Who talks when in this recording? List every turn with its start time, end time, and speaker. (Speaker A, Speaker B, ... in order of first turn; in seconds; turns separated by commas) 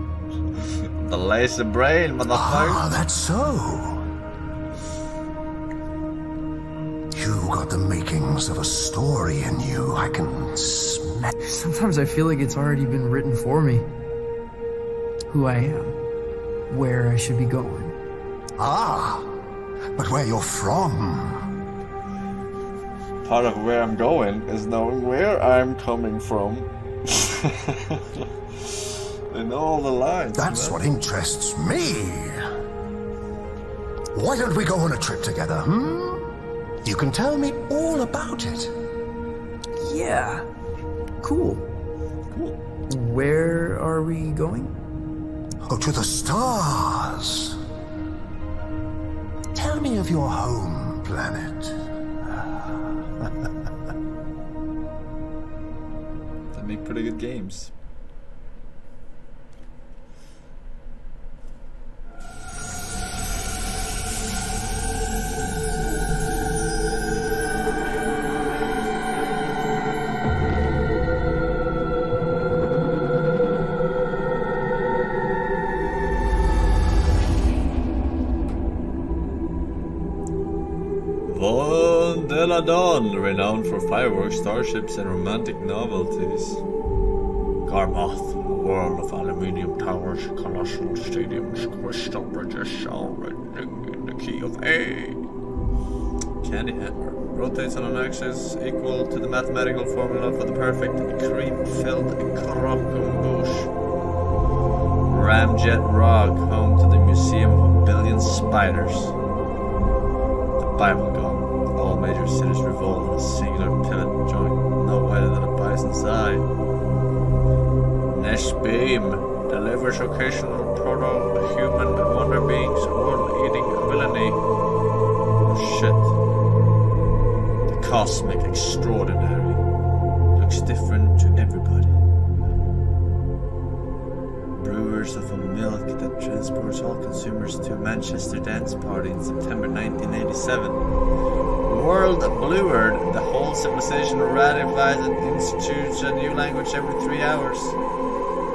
Speaker A: 1.0-2.8, Speaker B: 2.3-4.0, Speaker B: 7.1-11.3, Speaker C: 11.4-13.8, Speaker C: 15.3-15.9, Speaker C: 16.7-17.9, Speaker B: 18.6-19.3, Speaker B: 19.9-21.5, Speaker A: 23.2-28.7, Speaker A: 29.3-30.8, Speaker B: 30.4-32.4, Speaker B: 34.1-36.3, Speaker B: 36.8-38.7, Speaker C: 39.8-40.5, Speaker C: 41.2-41.6, Speaker A: 42.3-42.6, Speaker C: 42.9-44.7, Speaker B: 45.6-47.6, Speaker B: 49.5-51.7, Speaker A: 56.5-57.7, Speaker A: 81.3-86.6, Speaker A: 87.7-95.2, Speaker A: 96.4-103.7, Speaker A: 105.1-109.1, Speaker A: 110.6-116.5, Speaker A: 118.1-124.4, Speaker A: 125.4-126.1, Speaker A: 127.7-129.6, Speaker A: 130.3-131.9, Speaker A: 134.6-140.8, Speaker A: 141.7-147.8